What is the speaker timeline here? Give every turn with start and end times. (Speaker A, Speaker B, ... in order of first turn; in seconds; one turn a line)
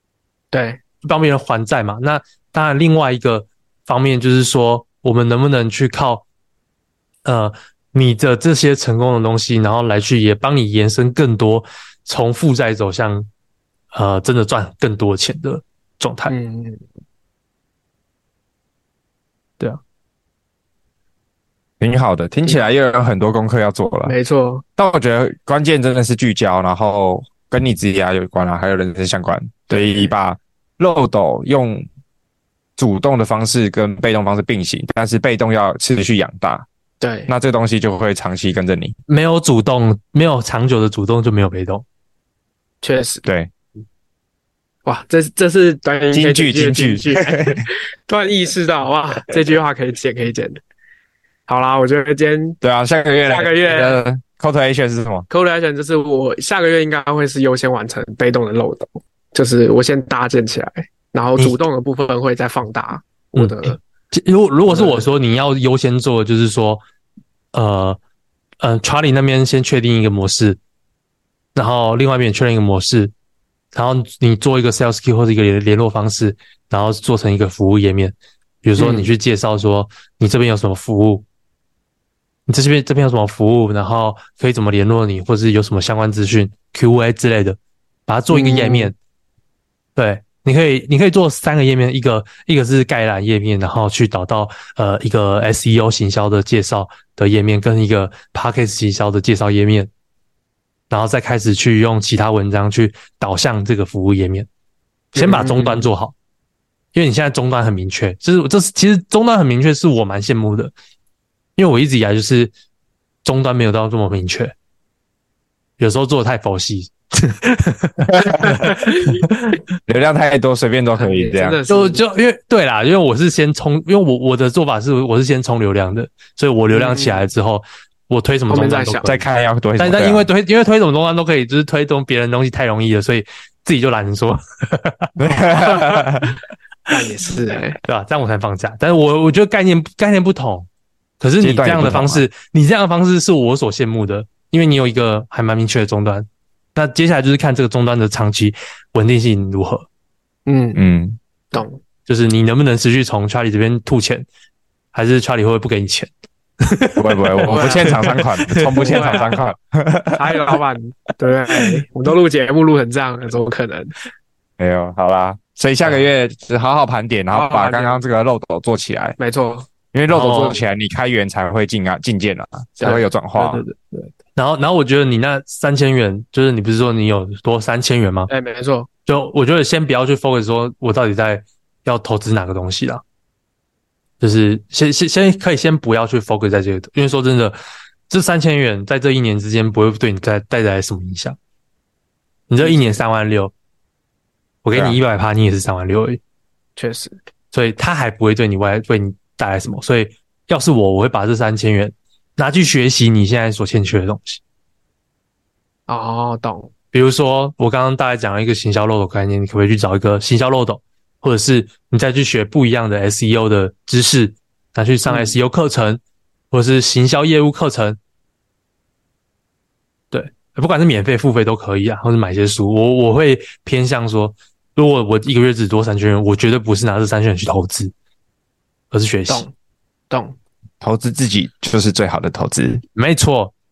Speaker A: 0.5-0.8
Speaker B: 1.0-6.2
Speaker B: 7.2-13.3
Speaker B: 13.9-16.3
Speaker A: 16.3-16.8
Speaker C: 21.8-24.1
Speaker A: 24.1-24.6
Speaker C: 24.8-31.9
Speaker A: 29.7-30.1
Speaker C: 32.8-36.6
Speaker A: 37.0-37.3
Speaker C: 37.3-39.0
Speaker B: 39.1-41.8
Speaker A: 42.8-43.2
Speaker C: 43.2-43.5
Speaker A: 44.9-50.6
Speaker C: 46.1-47.6
Speaker A: 51.5-52.6
Speaker C: 52.6-55.3
Speaker A: 53.3-54.0
Speaker A: 55.3-63.8
Speaker B: 63.3-66.8
Speaker A: 64.7-65.0
Speaker B: 67.5-68.0
Speaker B: 68.6-70.6
Speaker B: 71.5-73.1
Speaker B: 73.7-81.2
Speaker A: 78.8-79.1
Speaker B: 82.5-88.9
Speaker A: 88.3-88.9
Speaker B: 90.0-99.9
Speaker B: 100.9-104.5
Speaker A: 105.1-105.9
Speaker B: 105.1-106.1
Speaker B: 106.9-110.7
Speaker B: 111.6-112.5
Speaker B: 113.2-114.5
Speaker B: 115.8-118.9
Speaker C: 118.1-118.5
Speaker A: 118.7-119.2
Speaker C: 119.9-121.6
Speaker A: 120.9-122.0
Speaker B: 121.7-129.2
Speaker A: 126.7-127.2
Speaker A: 128.5-129.2
Speaker C: 129.0-130.3
Speaker B: 129.8-135.1
Speaker C: 135.2-136.3
Speaker A: 136.9-137.8
Speaker B: 137.8-140.7
Speaker B: 141.2-149.8
Speaker C: 141.4-142.2
Speaker A: 150.5-150.8
Speaker C: 150.7-151.2
Speaker A: 151.5-151.8
Speaker B: 152.1-154.3
Speaker B: 154.9-156.1
Speaker B: 156.6-159.4
Speaker C: 156.9-160.6
Speaker A: 157.5-158.0
Speaker A: 158.7-159.3
Speaker A: 160.1-163.9
Speaker C: 164.6-169.2
Speaker A: 167.3-168.0
Speaker A: 169.2-169.7
Speaker C: 169.9-173.6
Speaker B: 170.1-170.6
Speaker A: 172.8-173.0
Speaker B: 173.3-178.3
Speaker A: 178.3-178.9
Speaker B: 179.1-183.0
Speaker B: 184.2-187.6
Speaker B: 188.1-191.4
Speaker B: 192.5-193.5
Speaker A: 192.6-193.0
Speaker B: 194.6-196.2
Speaker C: 194.7-195.0
Speaker A: 196.8-197.1
Speaker B: 197.5-204.4
Speaker A: 205.9-206.7
Speaker B: 206.9-216.0
Speaker A: 215.1-215.3
Speaker B: 216.5-218.0
Speaker B: 220.1-227.9
Speaker B: 228.9-229.5
Speaker A: 230.1-230.3
Speaker C: 230.8-232.8
Speaker B: 232.9-233.5